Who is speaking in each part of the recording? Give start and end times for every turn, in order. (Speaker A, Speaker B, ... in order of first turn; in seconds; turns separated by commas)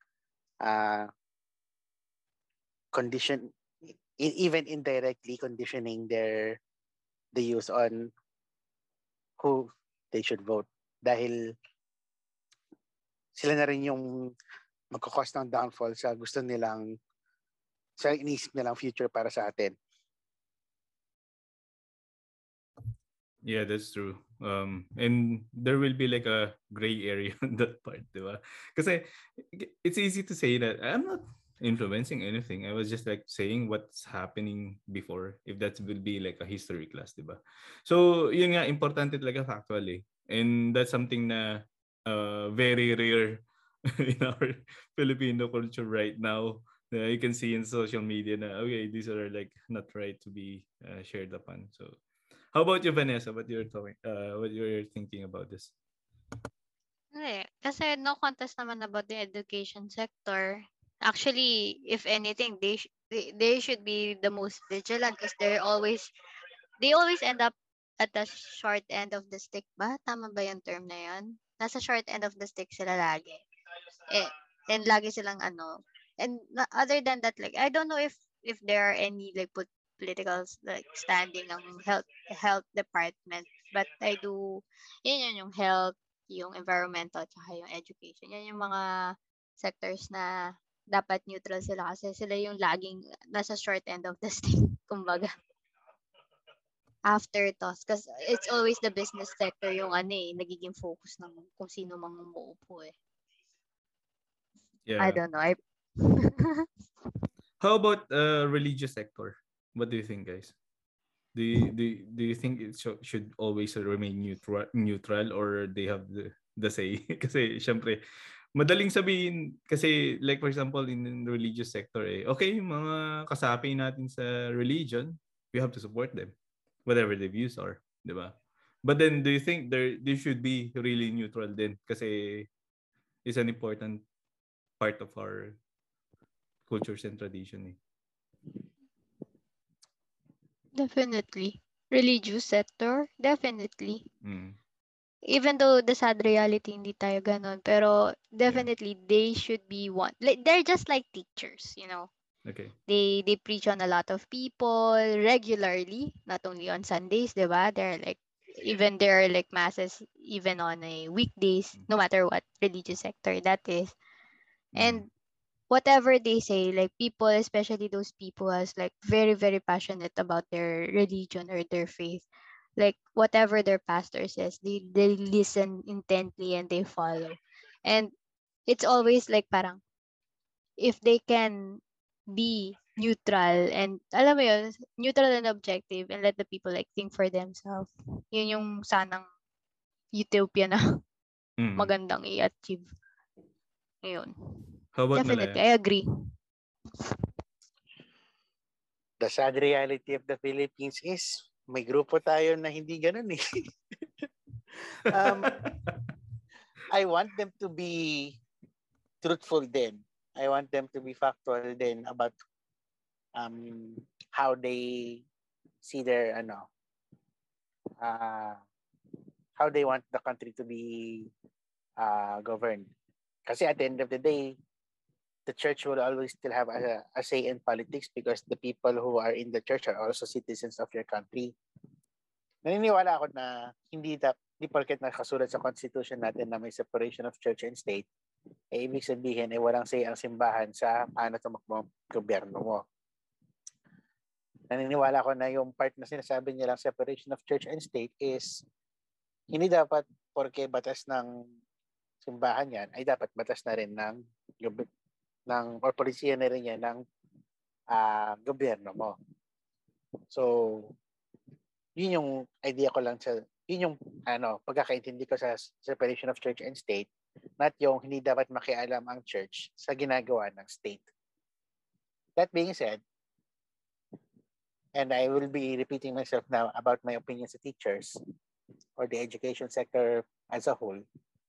Speaker A: 0.6-1.1, Speaker A: 2.9-3.5, Speaker A: 4.2-6.6, Speaker A: 7.3-8.1, Speaker A: 9.4-11.5, Speaker A: 13.3-14.3, Speaker A: 14.9-16.9, Speaker A: 18.0-19.8, Speaker B: 23.4-43.5, Speaker B: 44.0-52.0, Speaker B: 52.5-55.7, Speaker C: 57.1-66.1, Speaker C: 66.8-73.4, Speaker C: 74.1-95.3, Speaker C: 97.0-102.9, Speaker B: 104.9-105.2, Speaker C: 105.0-106.7, Speaker B: 107.6-110.6, Speaker B: 111.3-118.0, Speaker B: 118.5-126.3, Speaker B: 126.9-132.5, Speaker B: 133.2-134.0, Speaker B: 134.8-135.6, Speaker B: 136.7-137.8, Speaker C: 140.8-144.1, Speaker B: 144.2-144.6, Speaker C: 145.3-152.1, Speaker B: 152.4-152.8, Speaker C: 152.9-163.9, Speaker B: 164.8-165.1, Speaker C: 164.8-165.1, Speaker C: 165.7-172.3, Speaker C: 172.8-178.1, Speaker C: 178.7-179.8, Speaker C: 180.8-181.8, Speaker C: 182.3-189.3, Speaker C: 190.1-191.0, Speaker B: 191.6-191.9, Speaker C: 191.8-192.9, Speaker C: 194.0-194.6, Speaker B: 194.9-195.6, Speaker C: 195.1-196.0, Speaker C: 197.0-197.2, Speaker A: 199.2-203.7, Speaker A: 204.9-205.7, Speaker B: 205.2-206.0, Speaker A: 206.9-208.4, Speaker A: 209.2-212.3, Speaker A: 213.4-215.2, Speaker A: 215.8-216.7, Speaker A: 218.0-218.6, Speaker A: 219.6-221.3, Speaker A: 222.0-222.9, Speaker A: 223.5-224.6, Speaker A: 225.5-231.6, Speaker A: 232.7-238.1, Speaker A: 238.7-242.8, Speaker A: 244.7-248.6, Speaker A: 249.5-251.3, Speaker A: 252.2-254.9, Speaker A: 255.5-257.0, Speaker A: 257.9-259.1, Speaker A: 260.3-260.9, Speaker A: 262.0-271.1, Speaker A: 272.4-273.0, Speaker A: 274.9-278.2, Speaker A: 279.0-281.0